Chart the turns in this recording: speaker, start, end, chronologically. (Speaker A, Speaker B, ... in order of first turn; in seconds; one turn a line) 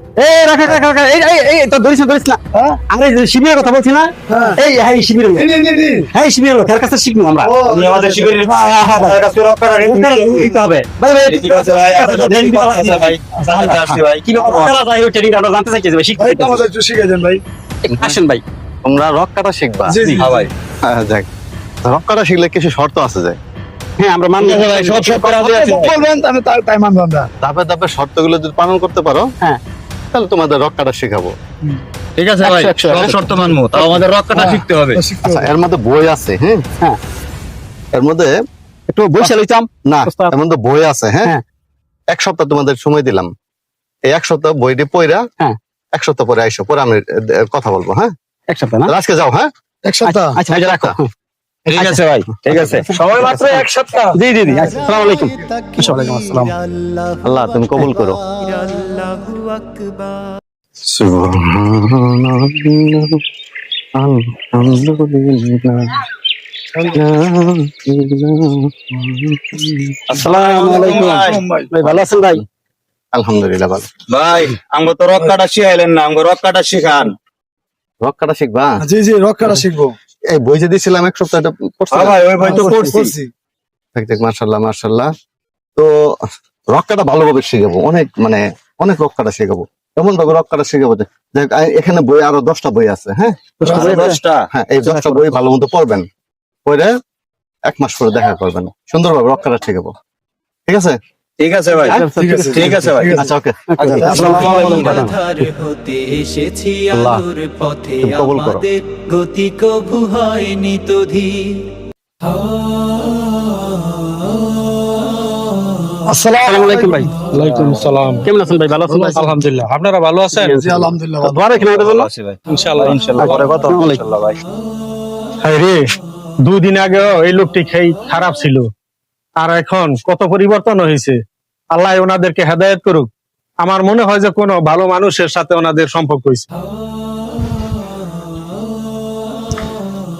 Speaker A: 0.2-5.5
Speaker B: 4.3-4.6
Speaker B: 5.4-6.1
Speaker A: 6.1-16.7
Speaker B: 7.4-8.3
Speaker C: 7.7-10.1
Speaker C: 11.2-14.7
Speaker B: 16.2-17.4
Speaker A: 17.8-18.4
Speaker D: 18.9-20.1
Speaker B: 19.9-20.5
Speaker C: 20.2-20.5
Speaker D: 20.9-21.3
Speaker D: 21.9-23.4
Speaker A: 24.0-25.2
Speaker C: 24.4-26.0
Speaker B: 25.0-27.3
Speaker D: 27.4-29.3
Speaker D: 30.1-31.3
Speaker C: 32.2-35.0
Speaker A: 32.4-34.0
Speaker B: 34.3-35.5
Speaker D: 35.2-36.6
Speaker D: 37.9-38.3
Speaker A: 38.9-40.3
Speaker D: 39.9-41.3
Speaker D: 42.1-43.3
Speaker D: 44.1-45.2
Speaker D: 45.9-48.1
Speaker A: 48.5-48.9
Speaker D: 48.9-49.5
Speaker B: 49.8-50.4
Speaker A: 50.0-51.1
Speaker D: 50.5-51.0
Speaker B: 51.7-52.0
Speaker C: 51.7-52.9
Speaker A: 52.5-56.5
Speaker E: 53.0-54.1
Speaker B: 54.5-54.8
Speaker F: 54.6-60.4
Speaker D: 57.2-58.2
Speaker D: 60.9-63.2
Speaker D: 64.0-66.0
Speaker D: 66.8-69.8
Speaker C: 70.1-71.7
Speaker A: 70.1-72.4
Speaker B: 70.9-71.6
Speaker D: 73.1-73.9
Speaker C: 74.1-77.1
Speaker D: 78.0-78.8
Speaker B: 78.8-80.0
Speaker D: 80.3-82.2
Speaker C: 81.9-83.1
Speaker B: 82.4-83.3
Speaker D: 84.0-85.1
Speaker D: 85.8-86.2
Speaker D: 86.7-94.0
Speaker A: 93.7-94.2
Speaker C: 93.7-94.5
Speaker B: 93.7-93.9
Speaker D: 94.5-96.1
Speaker A: 94.8-95.4
Speaker D: 96.7-96.9
Speaker D: 97.7-99.9
Speaker D: 100.7-101.0
Speaker C: 101.4-103.1
Speaker A: 101.8-103.1
Speaker B: 102.0-103.2
Speaker D: 103.1-103.6
Speaker A: 103.8-105.1
Speaker C: 103.8-104.9
Speaker B: 104.0-105.0
Speaker F: 104.3-111.7
Speaker D: 106.9-107.2
Speaker D: 108.0-108.7
Speaker B: 116.1-117.8
Speaker A: 116.4-119.3
Speaker E: 117.3-118.3
Speaker B: 118.8-119.4
Speaker E: 119.2-120.5
Speaker A: 120.3-122.1
Speaker B: 120.5-121.5
Speaker C: 121.5-124.4
Speaker E: 122.5-123.6
Speaker A: 123.2-124.0
Speaker A: 125.4-125.8
Speaker E: 126.5-128.7
Speaker E: 129.4-131.2
Speaker E: 131.7-133.1
Speaker E: 133.6-136.5